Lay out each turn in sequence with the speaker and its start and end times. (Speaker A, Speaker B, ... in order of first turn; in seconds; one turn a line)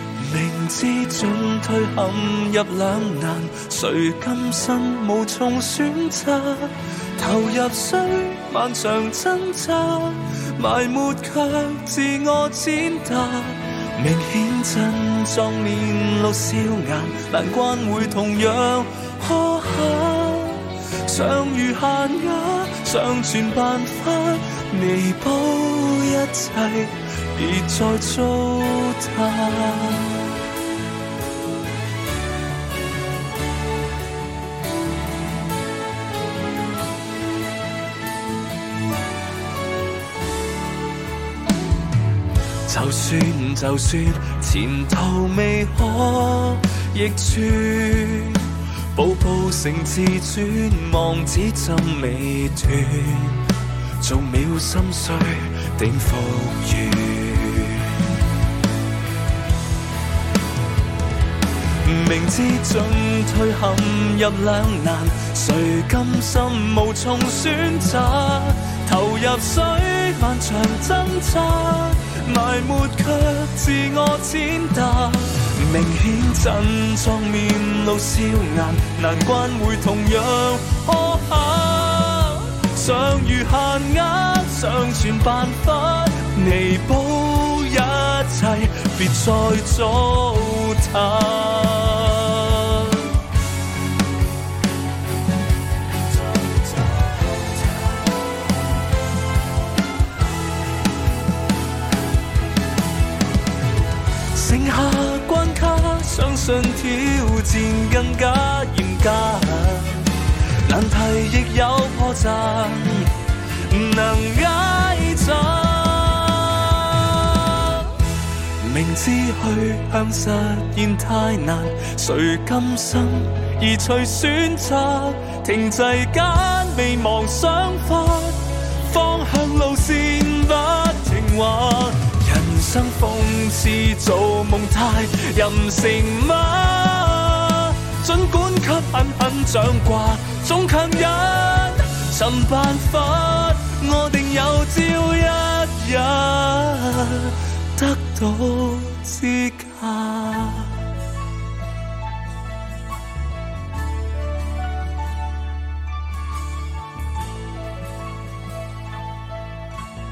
Speaker A: 0.2-30.3
Speaker A: 42.7-53.5
Speaker A: 54.0-58.0
Speaker A: 61.8-93.1
Speaker A: 104.3-110.1
Speaker A: 110.7-117.9
Speaker A: 118.6-150.8